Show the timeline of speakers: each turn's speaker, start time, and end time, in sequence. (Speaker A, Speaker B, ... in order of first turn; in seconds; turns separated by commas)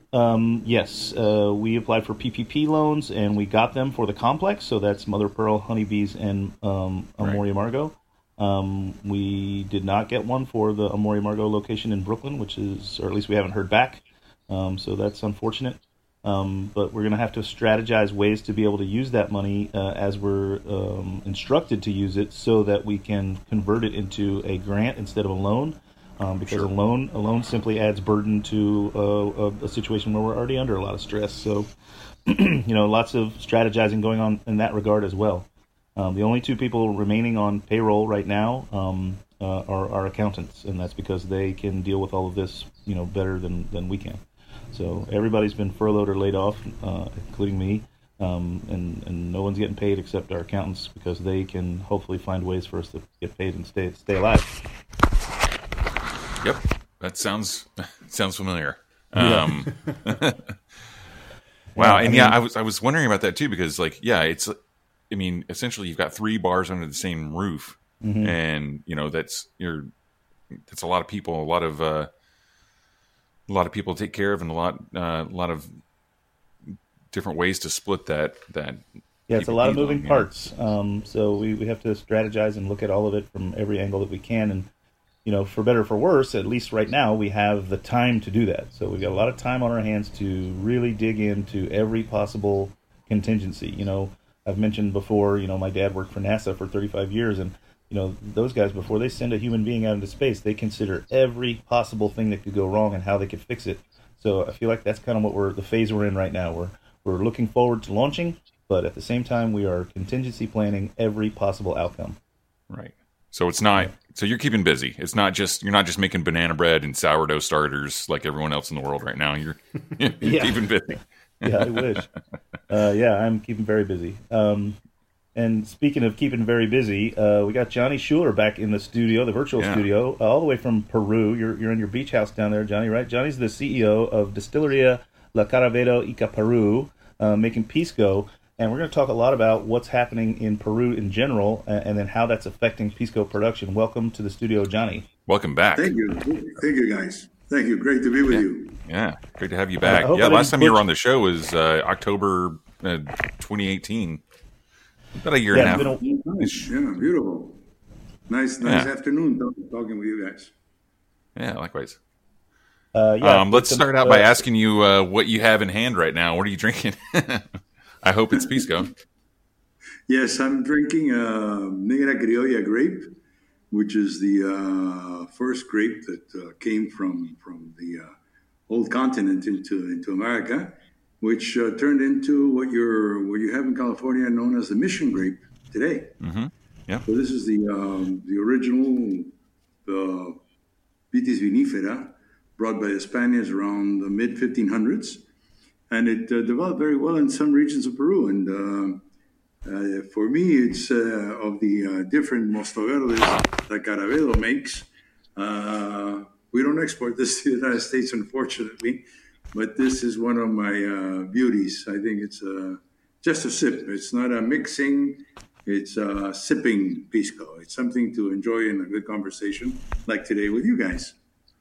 Speaker A: 0.1-31.7, Speaker A: 32.3-54.6, Speaker B: 56.4-60.5, Speaker A: 59.2-59.5, Speaker A: 61.7-62.4, Speaker B: 61.8-64.5, Speaker B: 65.1-69.9, Speaker A: 68.0-68.3, Speaker B: 70.6-72.1, Speaker B: 73.5-75.7, Speaker B: 77.1-80.3, Speaker A: 79.3-84.7, Speaker A: 85.2-112.2, Speaker B: 112.7-122.1, Speaker A: 120.2-120.7, Speaker A: 121.4-122.1, Speaker A: 122.7-124.8, Speaker A: 125.3-145.1, Speaker B: 129.6-129.9, Speaker B: 145.3-145.9, Speaker C: 145.7-148.8, Speaker B: 148.3-154.2, Speaker A: 149.8-150.8, Speaker B: 155.2-156.7, Speaker A: 155.5-156.0, Speaker C: 155.5-157.6, Speaker C: 158.3-160.5, Speaker B: 158.6-158.9, Speaker B: 161.3-162.0, Speaker A: 162.9-164.4, Speaker B: 163.2-168.9, Speaker C: 170.1-173.1, Speaker C: 173.7-178.1, Speaker C: 178.7-186.1, Speaker B: 186.2-187.1, Speaker C: 187.1-189.3, Speaker C: 189.8-190.4, Speaker C: 191.1-195.2, Speaker C: 195.9-199.0, Speaker C: 199.6-221.1